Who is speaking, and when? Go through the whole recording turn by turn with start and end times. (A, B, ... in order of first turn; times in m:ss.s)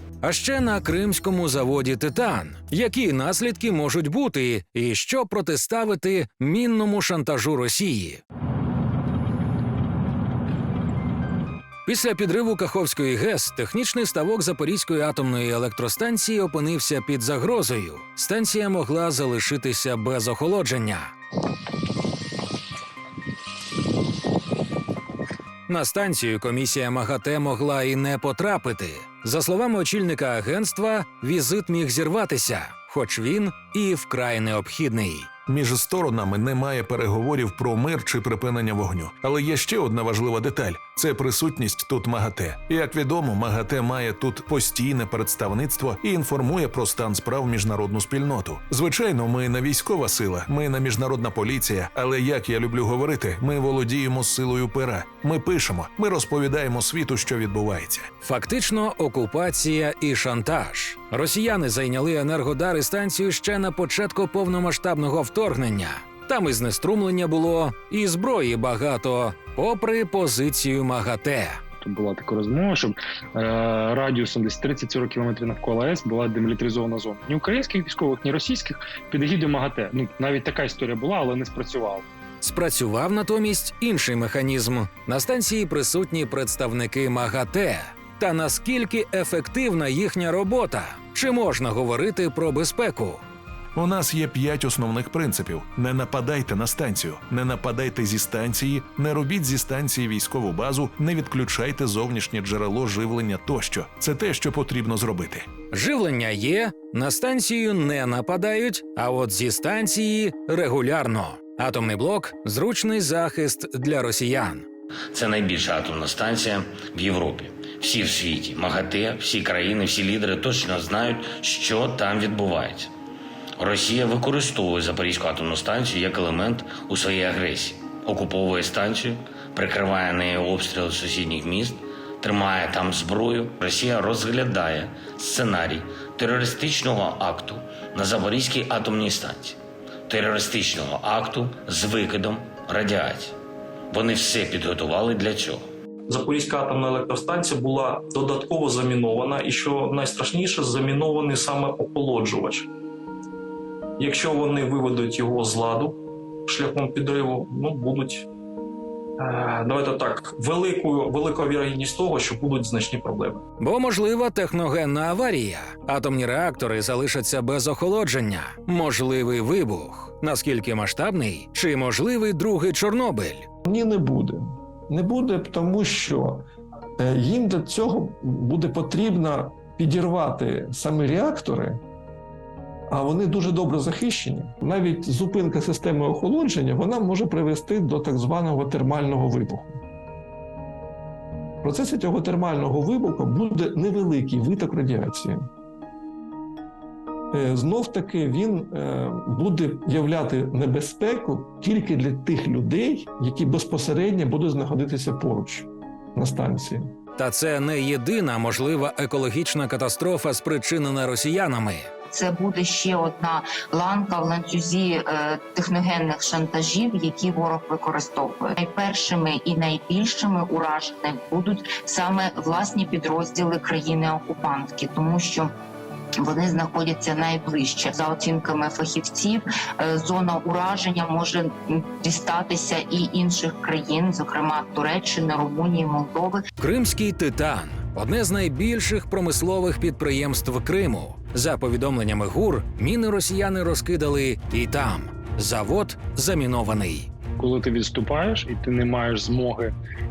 0:00.2-0:08.2 A
0:11.9-0:21.1 A
0:25.7-0:35.3 A
0:35.5-0:58.1 B
0:58.2-1:11.6 A
1:11.8-1:22.1 C
1:22.4-1:33.2 A
1:33.8-1:45.5 B
1:45.7-1:54.7 A
1:55.1-2:02.9 D
2:03.6-2:19.6 D
2:20.1-2:23.3 D
2:23.9-2:25.6 D
2:26.1-2:32.7 E
2:34.0-2:38.2 E
2:39.2-2:43.4 E
2:43.6-2:53.5 A
2:53.6-2:56.5 F
2:57.0-3:01.8 F
3:02.9-3:09.8 F
3:11.6-3:15.4 F
3:17.3-3:26.9 F
3:27.2-3:31.9 A
3:32.1-3:45.5 G
3:46.2-3:56.4 G
3:56.6-4:07.1 A
4:07.4-4:09.8 C